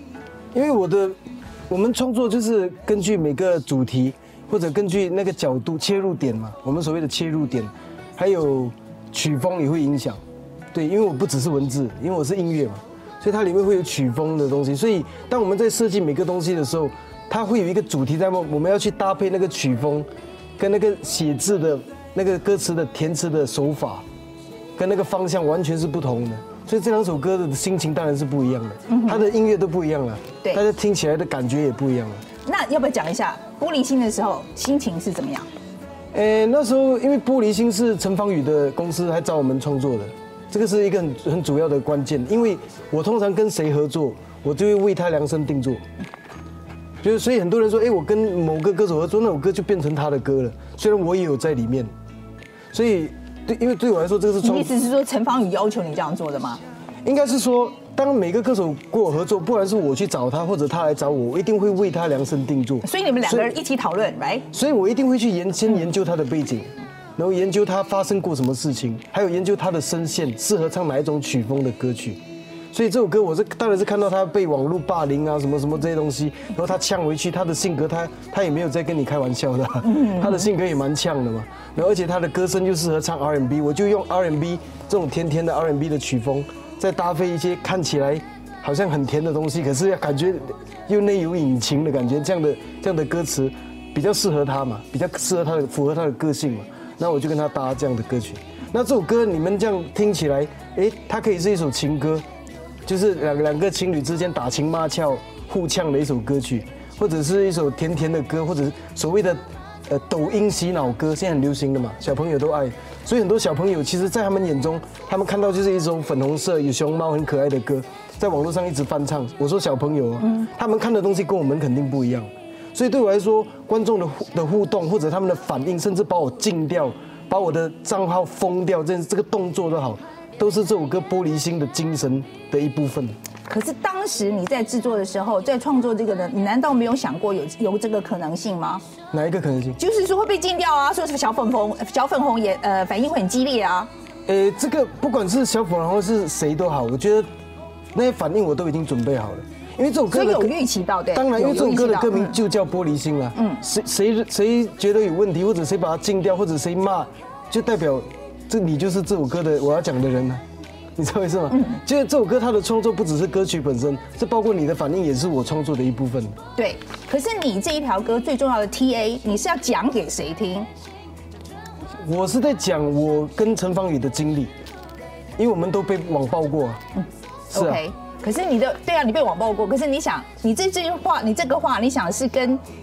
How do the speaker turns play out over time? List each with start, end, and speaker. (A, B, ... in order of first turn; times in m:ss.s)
0:00.5-0:01.2 A
0:01.7-0:10.2 A
0:10.7-0:24.0 A
0:24.8-0:32.2 A
0:28.9-0:29.2 B
0:32.4-0:35.5 B
0:36.1-0:45.8 A
0:47.0-0:51.9 A
0:52.7-0:54.7 A
0:54.4-0:56.6 B
0:57.0-1:03.5 A
1:02.8-1:04.5 B
1:04.5-1:12.2 A
1:12.7-1:42.2 A
1:19.8-1:20.5 B
1:42.8-2:13.1 A
2:13.5-2:18.8 B
2:19.1-2:19.8 A
2:19.8-2:23.9 B
2:24.3-2:27.3 A
2:27.9-2:30.5 A
2:30.1-2:32.4 B
2:31.1-2:40.4 A
2:33.3-2:33.6 B
2:41.0-2:46.4 A
2:41.5-2:41.8 B
2:46.6-2:50.7 B
2:52.0-2:54.5 A
2:55.4-2:56.8 A
2:57.0-3:02.6 B
2:57.5-2:57.8 A